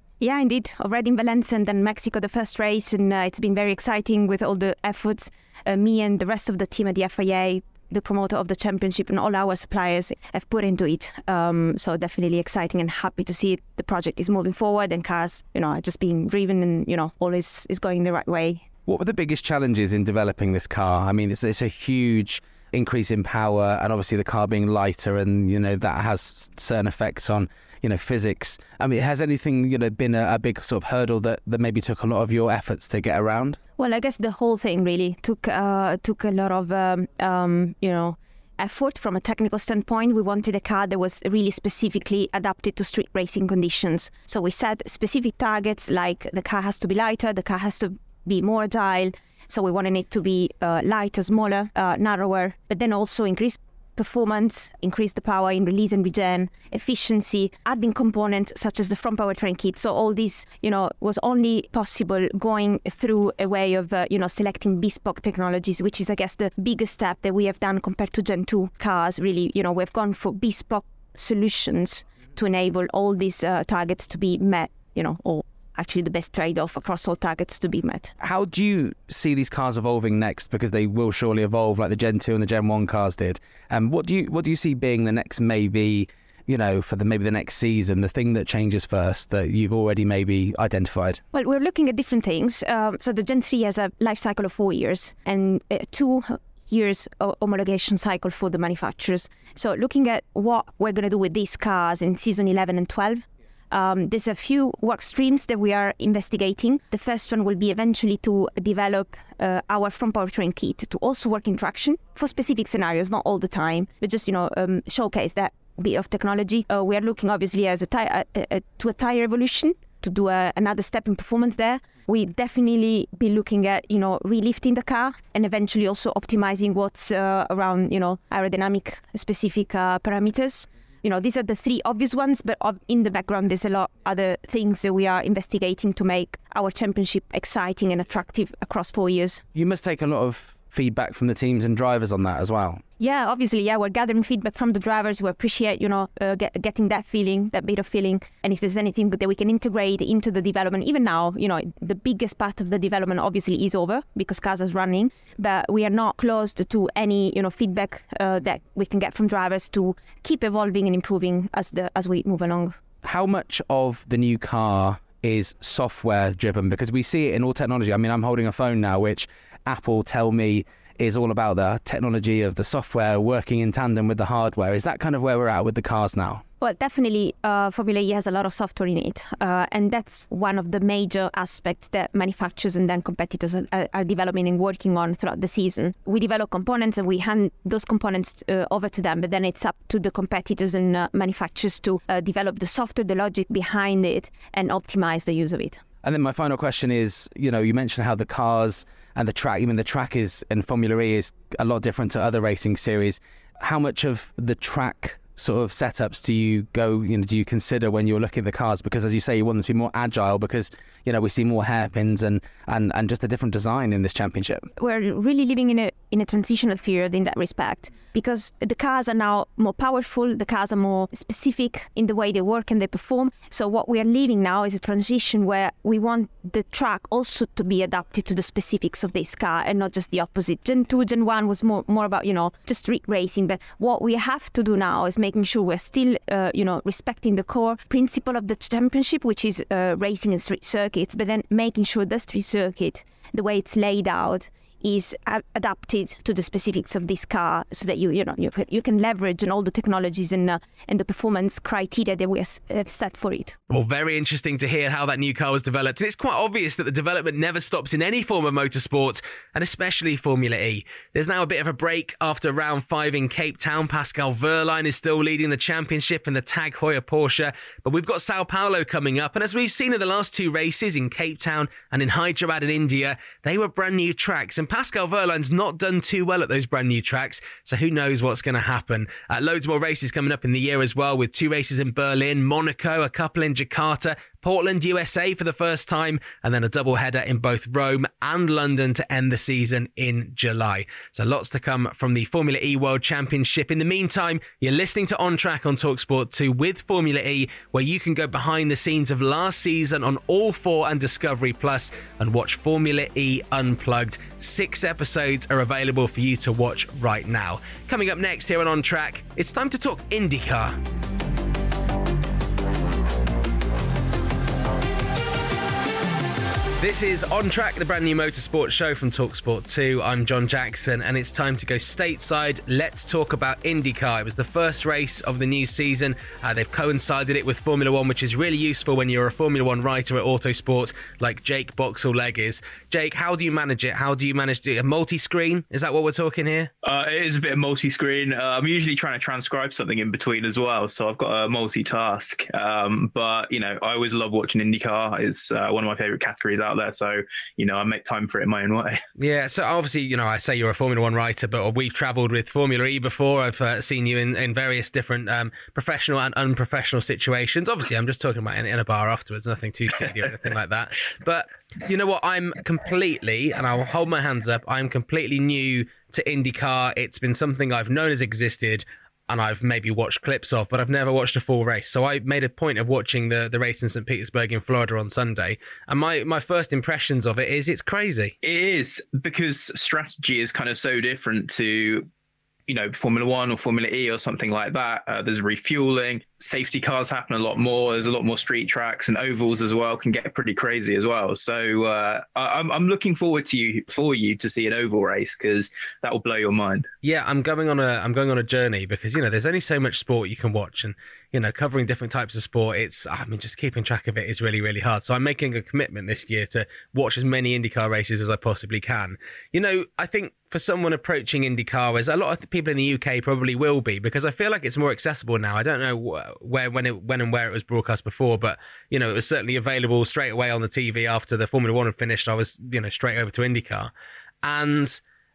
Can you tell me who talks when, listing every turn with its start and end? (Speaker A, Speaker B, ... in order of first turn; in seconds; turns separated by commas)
Speaker A: 0.2-18.7, Speaker B: 18.9-33.6, Speaker A: 33.8-78.1, Speaker B: 78.2-91.2, Speaker A: 91.3-139.4, Speaker B: 139.5-142.8, Speaker A: 143.0-162.8, Speaker B: 163.0-176.4, Speaker A: 176.6-195.8, Speaker B: 196.0-214.7, Speaker A: 214.8-253.6, Speaker C: 253.7-310.8, Speaker C: 316.8-336.7, Speaker D: 336.8-349.0, Speaker C: 349.2-378.3, Speaker D: 378.4-382.1, Speaker D: 382.7-396.9, Speaker C: 397.0-423.9, Speaker C: 424.4-425.0